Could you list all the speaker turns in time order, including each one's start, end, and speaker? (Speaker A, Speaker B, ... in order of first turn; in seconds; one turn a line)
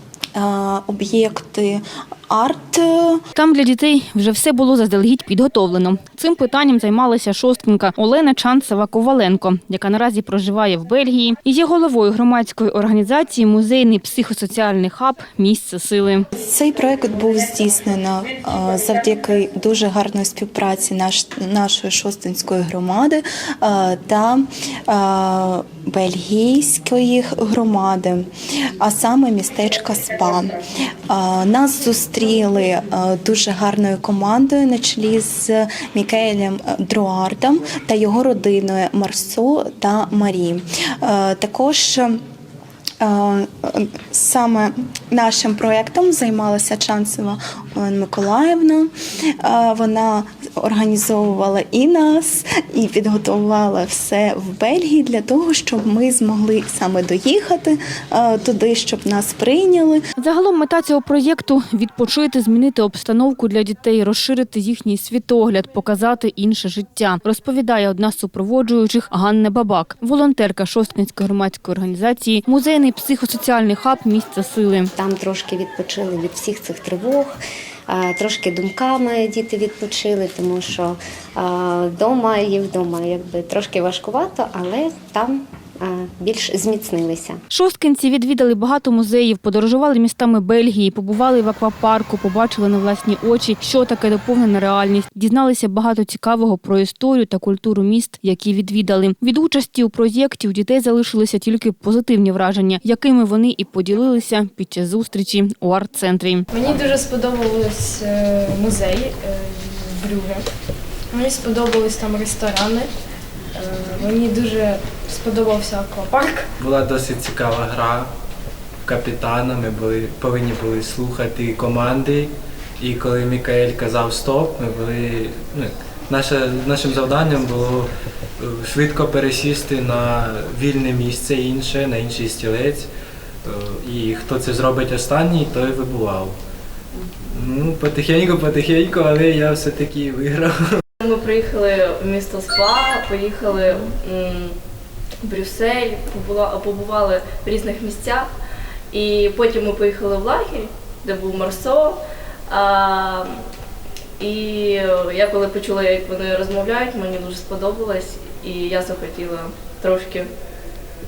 Speaker A: 0.4-3.2
Speaker B: 3.4-16.3
Speaker A: 16.4-28.3
Speaker A: 28.8-30.6
Speaker A: 31.1-42.2
Speaker A: 43.0-48.9
Speaker A: 49.4-60.0
Speaker B: 60.2-74.9
Speaker C: 75.0-77.3
Speaker C: 77.9-87.4
Speaker B: 87.5-106.5
Speaker D: 106.5-110.4
Speaker D: 111.1-112.9
Speaker D: 113.5-116.5
Speaker E: 116.6-118.1
Speaker E: 118.9-132.9
Speaker E: 133.4-136.4
Speaker E: 137.3-140.8
Speaker F: 141.0-144.6
Speaker F: 145.2-148.3
Speaker F: 148.9-153.4
Speaker F: 154.2-160.3